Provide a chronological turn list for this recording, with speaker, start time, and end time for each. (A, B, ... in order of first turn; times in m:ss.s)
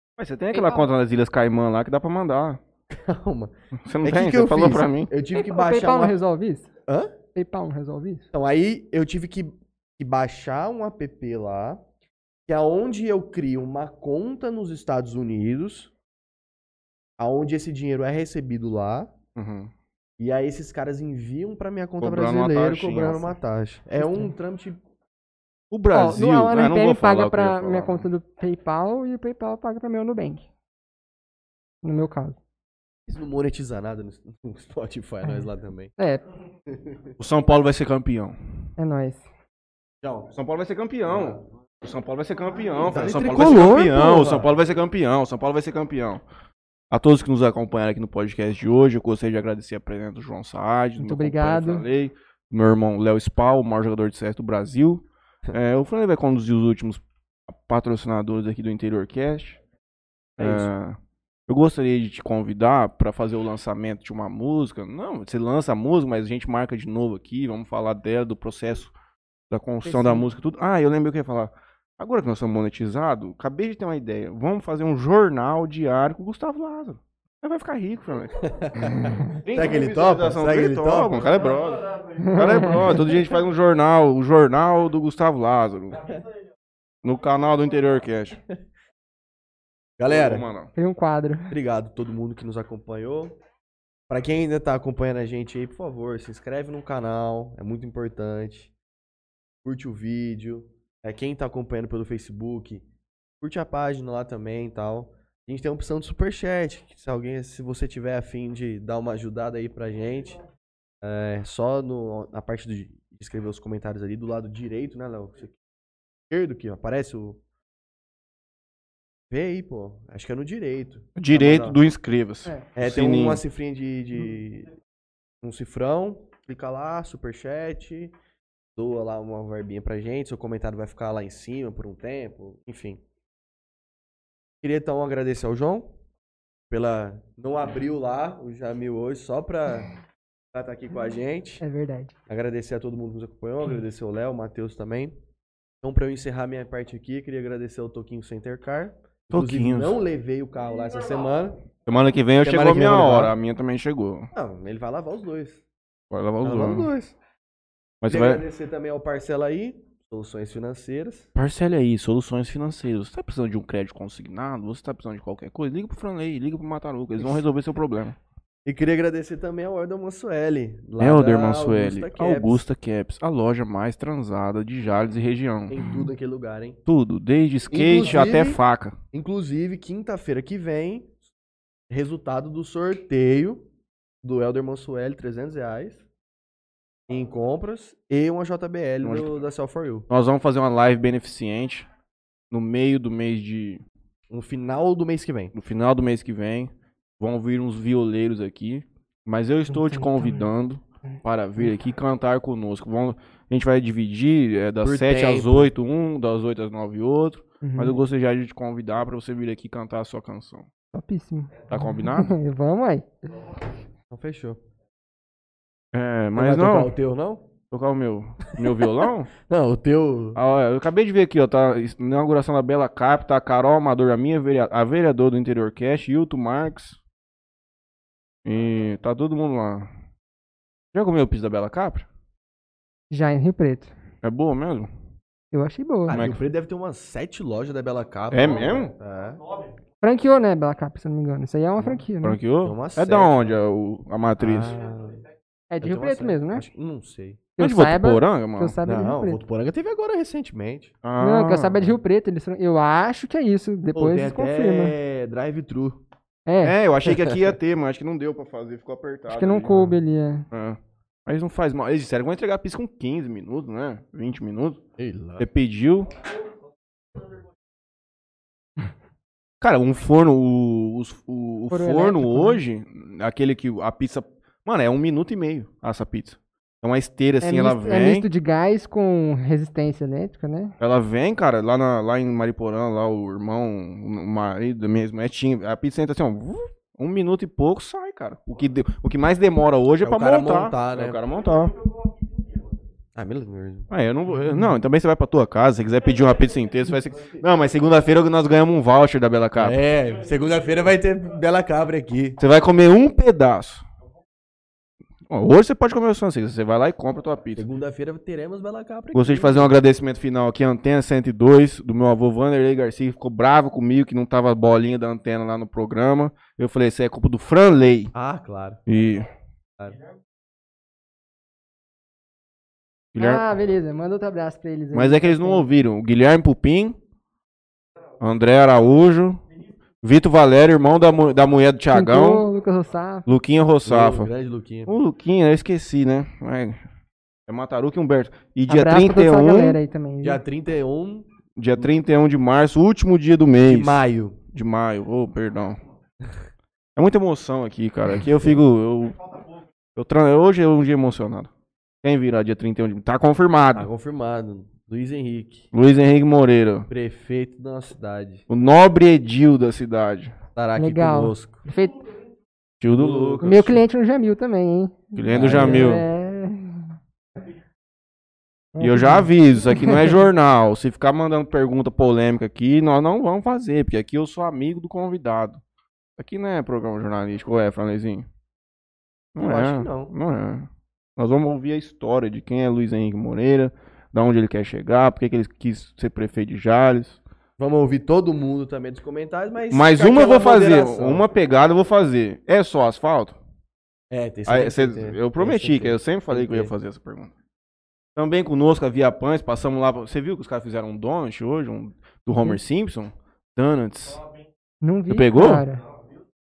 0:00.2-0:02.6 A
0:00.5-0:00.9 B
0:02.9-0:03.5 C
0:03.8-0:05.1 A
0:04.0-0:06.2 C
0:05.3-0:06.7 B
0:06.9-0:07.1 C
0:07.4-0:08.2 B
0:08.3-0:11.8 C
0:12.5-0:15.9 C
0:17.2-0:19.1 C
0:19.4-0:19.7 A
0:20.2-0:24.8 C
0:22.0-0:23.4 A
0:24.0-0:24.3 B
0:25.7-0:28.1 A
0:25.9-0:30.5 B
0:31.8-0:32.4 B
0:33.1-0:35.9 C
0:36.0-0:36.2 B
0:36.7-0:37.0 C
0:37.2-0:38.4 A
0:38.8-0:39.3 B
0:40.0-0:40.3 C
0:40.3-0:46.2 A
0:42.8-0:44.5 C
0:46.9-0:59.6 A
0:51.0-0:51.8 B
1:00.4-1:00.7 C
1:00.4-1:01.0 A
1:01.5-1:08.9 A
1:09.5-1:18.4 A
1:09.8-1:10.3 B
1:18.4-1:21.2 C
1:19.4-1:26.0 A
1:22.2-1:22.8 B
1:27.0-1:28.4 A
1:30.0-1:30.5 C
1:30.1-1:30.7 A
1:30.8-1:31.5 B
1:31.5-1:33.4 C
1:34.1-1:38.7 C
1:39.6-1:42.8 C
1:43.4-1:50.4 C
1:51.0-1:55.6 C
1:56.3-1:57.4 C
1:59.3-2:01.8 C
2:01.2-2:03.4 A
2:02.8-2:04.7 C
2:05.4-2:08.1 C
2:08.8-2:13.0 C
2:14.6-2:15.9 C
2:16.7-2:19.9 C
2:20.5-2:21.6 C
2:21.6-2:22.1 B
2:22.3-2:25.1 C
2:25.8-2:31.6 C
2:29.3-2:30.0 A
2:31.9-2:34.3 A
2:32.4-2:33.3 C
2:34.3-2:35.6 C
2:36.1-2:36.9 A
2:36.4-2:37.2 C
2:38.0-2:38.4 A
2:38.1-2:41.3 C
2:41.4-2:48.2 A
2:48.6-2:52.6 C
2:51.0-2:55.8 A
2:55.7-2:56.8 C
2:55.8-2:56.1 B
2:56.9-2:59.0 A
2:57.7-2:58.6 C
2:59.1-3:01.2 C
3:01.9-3:03.7 C
3:04.2-3:06.0 C
3:07.1-3:10.1 C
3:09.0-3:09.3 A
3:10.1-3:11.9 A
3:12.5-3:13.8 A
3:14.3-3:15.5 C
3:15.5-3:30.6 A
3:19.7-3:20.5 B
3:21.1-3:21.7 B
3:24.8-3:25.7 C
3:27.6-3:28.0 B
3:30.9-3:33.5 B
3:31.7-3:32.3 A
3:34.1-3:34.6 C
3:35.9-3:36.9 A
3:36.4-3:37.4 C
3:37.7-3:39.3 A
3:39.4-3:40.4 C
3:40.4-3:47.0 A
3:48.4-3:49.9 A
3:50.9-3:52.1 A
3:53.1-3:53.9 B
3:54.2-3:54.9 A
3:55.5-3:56.2 B
3:56.1-3:56.4 A
3:56.1-3:59.4 C
3:58.3-3:58.9 A
4:00.0-4:02.4 B
4:01.8-4:02.0 C
4:02.2-4:04.7 A
4:02.6-4:03.6 C
4:04.4-4:05.2 C
4:05.7-4:06.6 B
4:05.8-4:07.4 C
4:07.6-4:09.4 B
4:07.6-4:08.8 A
4:08.8-4:10.9 C
4:11.0-4:11.8 A
4:11.2-4:15.0 B
4:13.9-4:16.0 C
4:16.5-4:16.8 B
4:16.6-4:19.8 A
4:17.0-4:17.4 C
4:19.3-4:20.5 B
4:20.5-4:24.8 A
4:25.0-4:25.4 C
4:25.4-4:26.1 A
4:29.6-4:38.3 A
4:31.7-4:32.6 B
4:37.4-4:40.7 B
4:40.8-4:51.8 A
4:50.0-4:51.2 C
4:53.2-4:53.9 C
4:53.9-4:59.8 A
4:59.6-5:02.4 C
5:02.4-5:03.8 A
5:05.3-5:07.6 A
5:07.6-5:09.7 C
5:09.1-5:18.1 A
5:18.1-5:18.8 C
5:18.9-5:19.3 A
5:23.1-5:23.4 A
5:23.2-5:25.6 B
5:24.9-5:27.0 A
5:28.2-5:29.4 A
5:30.0-5:32.4 A
5:31.9-5:33.3 B
5:33.3-5:34.3 A
5:33.9-5:34.9 C
5:34.9-5:36.8 A
5:37.5-5:39.8 A
5:38.7-5:40.4 B
5:40.2-5:41.3 C
5:41.6-5:45.8 A
5:43.7-5:44.4 C
5:47.0-5:49.2 A
5:50.0-5:51.5 A
5:52.0-5:53.9 A
5:53.8-5:55.7 C
5:55.7-5:56.9 A
5:56.9-5:58.5 C
5:58.5-6:00.3 A
6:00.6-6:01.6 C
6:00.8-6:02.1 B
6:02.8-6:03.8 A
6:02.9-6:03.7 C
6:03.4-6:07.0 B
6:05.2-6:06.0 A
6:05.3-6:06.0 C
6:08.8-6:10.2 B
6:08.8-6:15.6 A
6:16.2-6:18.3 A
6:19.4-6:27.2 A
6:19.4-6:20.1 C
6:27.6-6:31.2 C
6:29.7-6:33.4 A
6:34.1-6:36.7 C
6:34.5-6:37.3 A
6:38.2-6:44.2 A
6:44.8-6:45.8 B
6:45.1-6:45.6 A